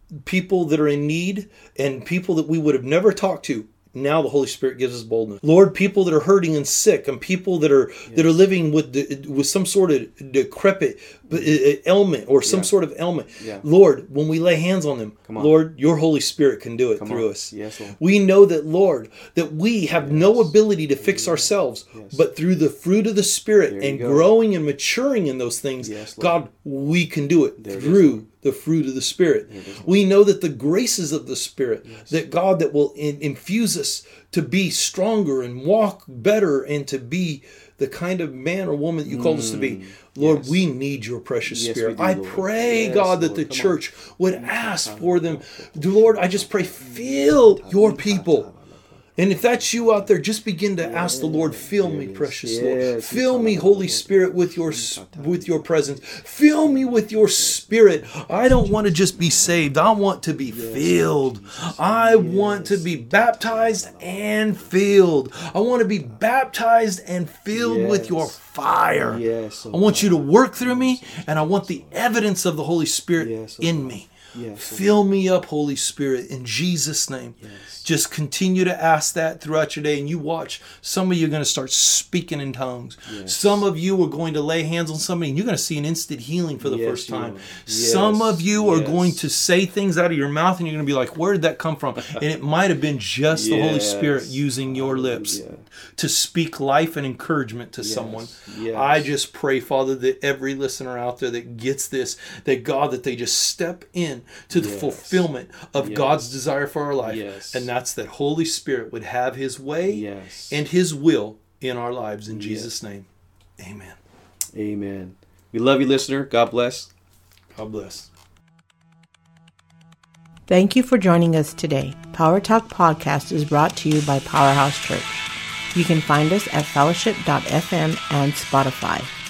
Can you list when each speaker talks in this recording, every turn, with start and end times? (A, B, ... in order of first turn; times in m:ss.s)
0:00.1-0:48.5 A
0:12.4-0:12.7 B
0:13.4-0:13.6 B
0:15.3-0:15.5 B
0:17.0-0:18.0 B
0:19.9-0:22.2 B
0:23.7-0:24.3 B
0:25.8-0:26.3 B
0:27.6-0:28.2 B
0:29.5-0:30.0 B
0:31.8-0:32.1 B
0:39.0-0:40.6 B
0:41.4-0:43.8 B
0:44.3-0:49.0 B
0:49.2-1:35.4 A
0:49.6-0:50.0 B
0:50.8-0:56.1 B
0:56.6-0:57.5 B
1:00.5-1:04.7 B
1:07.5-1:08.4 B
1:09.0-1:11.9 B
1:13.2-1:14.9 B
1:17.4-1:17.8 B
1:23.1-1:23.6 B
1:26.6-1:29.2 B
1:33.3-1:35.6 B
1:35.9-1:53.1 A
1:37.8-1:39.1 B
1:44.5-1:45.2 B
1:45.8-1:46.2 B
1:47.0-1:47.7 B
1:49.9-1:50.6 B
1:52.3-1:52.7 B
1:53.6-1:54.0 A
1:54.5-1:56.9 B
1:57.5-1:58.1 A
2:00.5-2:09.1 C